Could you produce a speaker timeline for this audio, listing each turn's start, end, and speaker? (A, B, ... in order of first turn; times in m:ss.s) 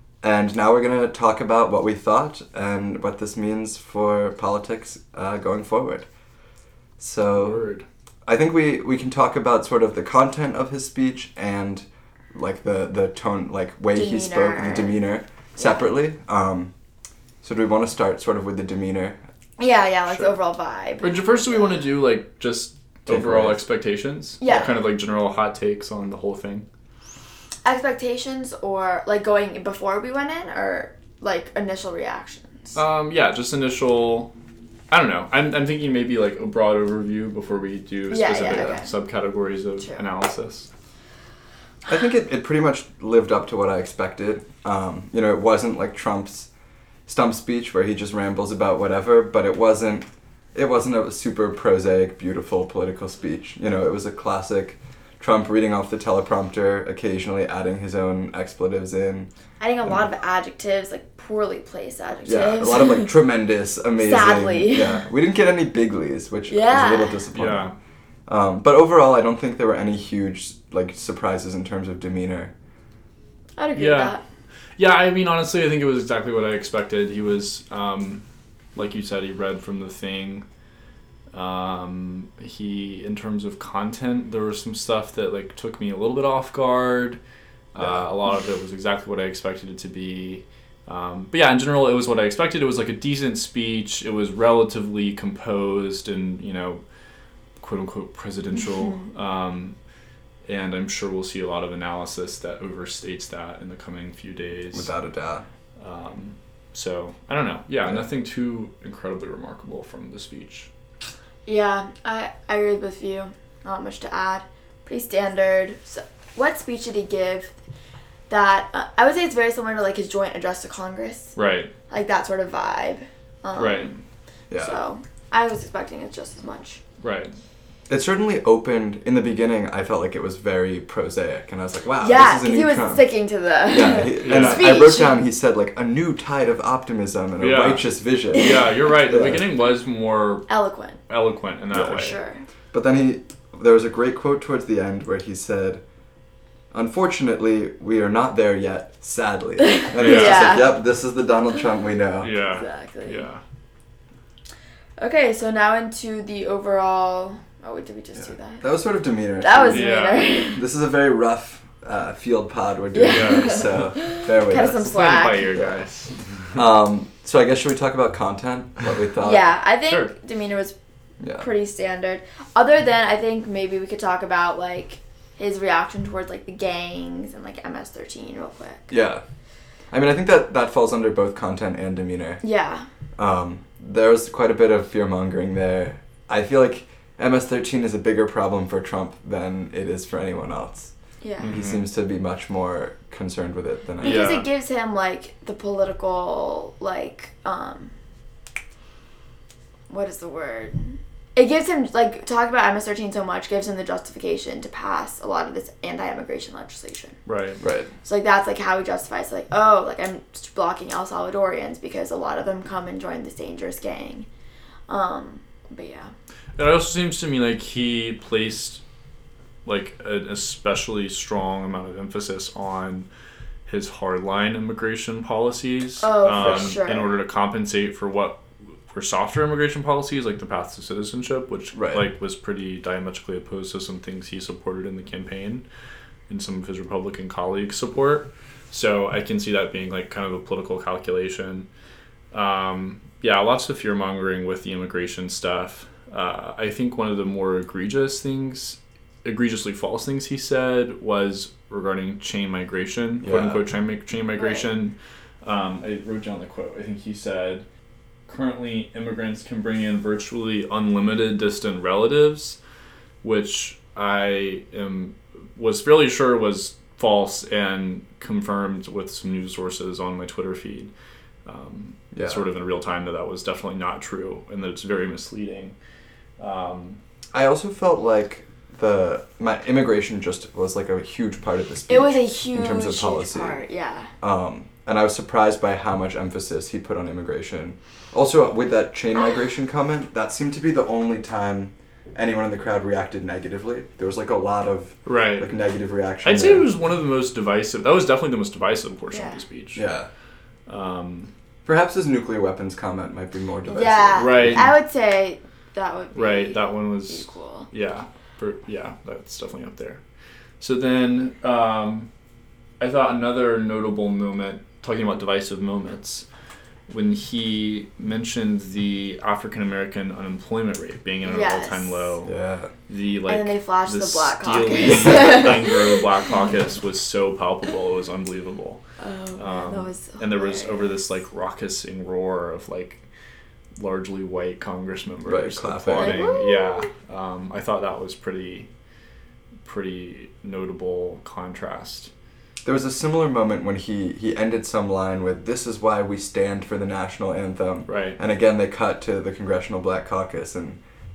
0:00.2-0:06.1 A
0:07.0-0:07.6 A
0:07.2-0:07.8 B
0:08.2-0:16.7 A
0:13.9-0:15.0 C
0:15.6-0:15.8 C
0:17.4-0:19.2 A
0:19.6-0:21.8 C
0:20.1-0:20.3 B
0:21.0-0:26.6 B
0:23.1-0:23.6 A
0:24.4-0:24.8 C
0:27.6-0:32.8 C
0:32.7-0:34.3 B
0:34.9-0:40.7 B
0:38.1-0:38.9 C
0:41.8-0:46.5 A
0:47.1-0:59.3 A
0:59.6-1:03.1 C
1:02.2-1:07.7 A
1:04.0-1:05.0 C
1:06.5-1:07.2 C
1:07.3-1:07.8 B
1:08.3-1:12.5 A
1:13.6-1:14.2 C
1:13.8-1:14.2 B
1:14.8-1:18.2 B
1:18.7-1:20.4 B
1:21.3-1:27.2 B
1:27.7-1:36.8 B
1:27.8-1:28.0 A
1:37.6-1:39.7 B
1:40.4-1:44.9 B
1:44.7-1:45.4 A
1:45.8-1:50.7 B
1:51.4-1:57.5 C
1:58.3-2:01.4 C
2:01.4-2:01.7 B
2:01.9-2:03.9 C
2:03.6-2:04.0 B
2:04.5-2:04.8 A
2:04.6-2:06.8 C
2:07.0-2:07.3 B
2:07.9-2:13.0 A
2:12.0-2:15.2 C
2:13.7-2:19.4 A
2:14.2-2:14.7 B
2:17.4-2:20.5 B
2:18.3-2:18.7 C
2:20.5-2:21.0 C
2:21.1-2:22.2 B
2:21.7-2:22.4 C
2:22.7-2:25.8 A
2:26.7-2:32.3 A
2:29.7-2:30.7 C
2:29.9-2:30.6 B
2:32.2-2:33.4 B
2:32.4-2:33.2 C
2:35.0-2:38.6 C
2:38.2-2:39.9 A
2:39.4-2:40.6 C
2:39.7-2:40.3 B
2:40.5-2:45.0 A
2:42.9-2:45.6 C
2:43.1-2:43.8 B
2:44.8-2:46.6 B
2:45.5-2:45.8 A
2:46.5-2:49.4 A
2:49.2-2:50.7 C
2:49.9-2:50.1 B
2:51.2-2:51.4 A
2:51.4-2:58.9 C
2:58.9-2:59.2 A
2:59.9-3:02.4 A
3:02.4-3:02.9 C
3:03.2-3:10.9 A
3:11.2-3:11.5 C
3:11.4-3:11.8 B
3:11.5-3:14.4 A
3:14.0-3:14.5 B
3:14.0-3:17.9 C
3:19.9-3:27.2 C
3:27.2-3:27.6 B
3:27.6-3:27.9 A
3:28.0-3:34.3 C
3:34.9-3:36.1 C
3:36.6-3:38.8 B
3:39.6-3:43.1 B
3:43.6-3:55.6 B
3:46.0-3:47.1 C
3:46.3-3:46.7 A
3:51.7-3:52.0 A
3:56.3-4:01.7 B
4:02.3-4:17.6 B
4:13.2-4:13.6 A
4:14.4-4:14.7 C
4:18.3-4:22.6 B
4:23.2-4:30.9 B
4:31.4-4:35.7 B
4:32.1-4:32.4 A
4:36.4-4:37.0 B
4:37.3-4:43.6 A
4:41.9-4:44.1 C
4:44.2-4:56.7 A
4:55.0-4:55.5 B
4:56.2-4:59.8 B
4:59.1-4:59.4 C
4:59.7-5:00.1 A
5:00.7-5:01.3 B
5:01.6-5:04.7 A
5:03.7-5:07.7 C
5:04.2-5:04.8 B
5:06.1-5:10.0 B
5:10.6-5:12.1 B
5:12.8-5:16.2 B
5:16.9-5:22.4 B
5:21.2-5:22.1 C
5:22.2-5:22.7 A
5:22.9-5:28.8 B
5:23.3-5:26.0 C
5:29.0-5:30.9 C
5:29.4-5:33.0 B
5:33.8-5:38.7 B
5:35.2-5:36.2 A
5:36.0-5:36.9 C
5:39.6-5:42.1 B
5:42.6-5:50.8 A
5:47.9-5:48.2 B